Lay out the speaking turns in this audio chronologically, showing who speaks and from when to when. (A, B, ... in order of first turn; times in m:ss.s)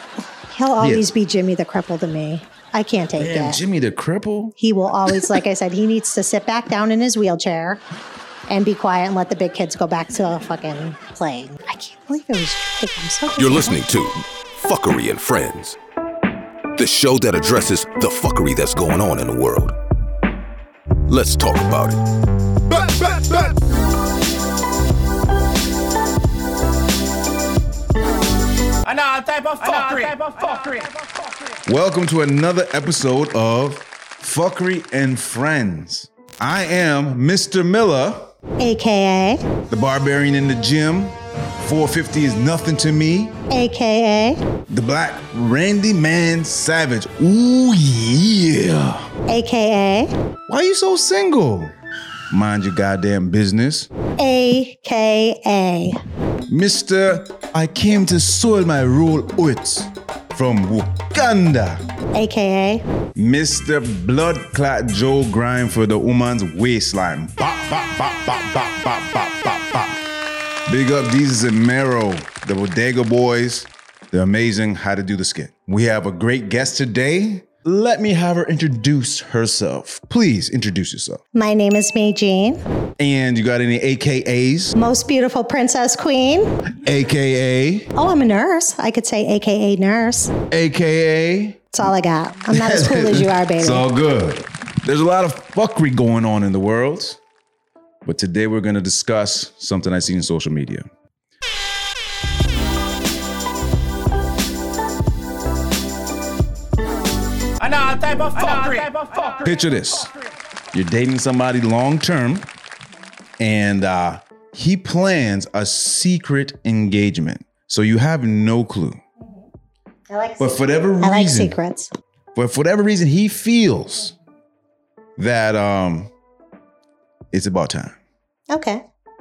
0:00.5-0:03.6 A
0:00.8-0:01.1 B
0:03.2-0:04.5 B
0:04.6-0:07.8 A
0:08.5-0:13.8 A
0:13.7-0:15.8 C
0:14.9-0:15.1 B
0:16.8-0:19.7 C
0:16.8-0:19.3 B
0:21.1-0:21.7 B
0:21.1-0:22.0 C
0:28.8-0:31.1 D
0:31.7-0:38.3 B
0:38.6-0:39.4 A
0:39.7-0:43.4 B
0:43.5-0:44.4 A
0:44.7-0:49.1 B
0:49.3-0:50.1 A
0:50.5-0:51.7 B
0:52.3-0:53.9 B
0:54.2-0:56.0 A
0:56.5-1:01.8 B
1:02.1-1:02.8 A
1:03.2-1:10.0 B
1:10.7-1:21.2 B
1:21.3-1:22.6 A
1:23.0-1:24.7 B
1:24.7-1:26.6 A
1:26.7-1:27.9 B
1:27.9-1:30.3 A
1:30.5-1:31.8 B
1:31.7-1:33.8 A
1:32.5-1:37.2 B
1:38.0-1:40.8 B
1:47.6-1:49.5 D
1:49.4-1:50.1 B
1:50.7-1:52.5 B
1:53.4-1:59.0 B
1:59.2-1:59.4 A
2:00.1-2:01.9 A
2:00.4-2:01.5 B
2:02.3-2:04.1 B
2:05.2-2:06.1 B
2:07.3-2:07.9 B
2:08.5-2:08.8 A